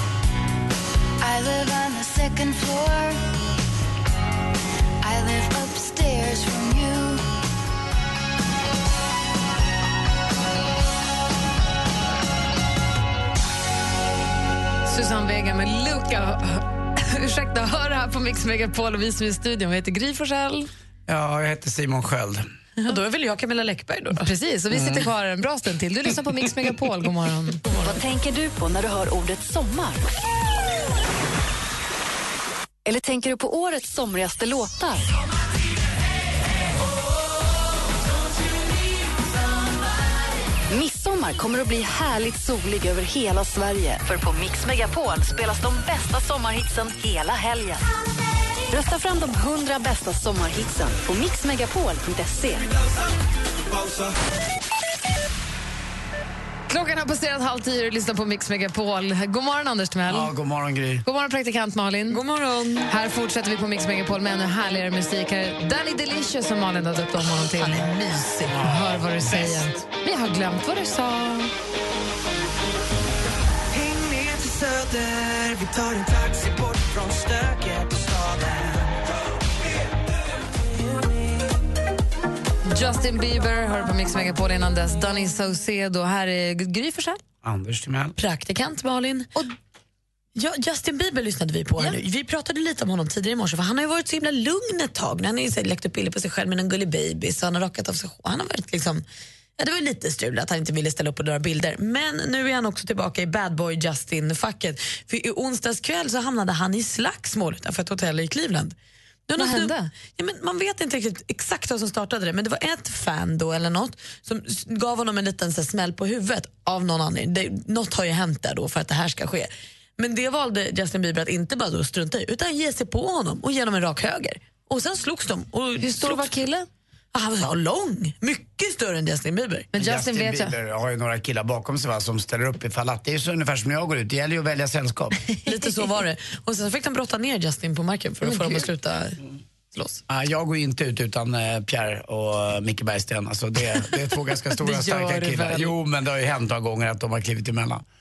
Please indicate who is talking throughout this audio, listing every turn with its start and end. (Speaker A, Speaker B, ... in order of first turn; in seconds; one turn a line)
Speaker A: 1.2-3.2
Speaker A: 5.0-7.3
Speaker B: 14.9-20.7
Speaker C: 21.1-22.4
Speaker D: 22.9-24.2
Speaker B: 24.1-28.0
Speaker E: 27.8-30.1
Speaker E: 32.8-35.1
Speaker E: 40.7-47.8
Speaker E: 48.7-52.7
Speaker B: 56.7-60.3
Speaker C: 60.1-61.0
Speaker B: 61.0-62.2
Speaker D: 62.1-62.9
Speaker B: 62.9-67.9
Speaker D: 67.2-69.6
Speaker B: 68.6-71.5
Speaker F: 73.7-79.0
Speaker B: 82.7-87.2
Speaker C: 87.4-88.2
Speaker D: 88.2-89.4
Speaker D: 90.3-99.0
Speaker D: 99.6-108.8
Speaker D: 109.3-126.3
Speaker B: 109.4-109.9
Speaker B: 125.8-126.7
Speaker D: 127.1-129.7
Speaker B: 129.7-130.6
Speaker C: 129.7-135.2
Speaker D: 135.5-139.2
Speaker B: 138.2-138.7
Speaker D: 139.7-140.0
Speaker C: 140.1-147.8
Speaker B: 144.6-145.7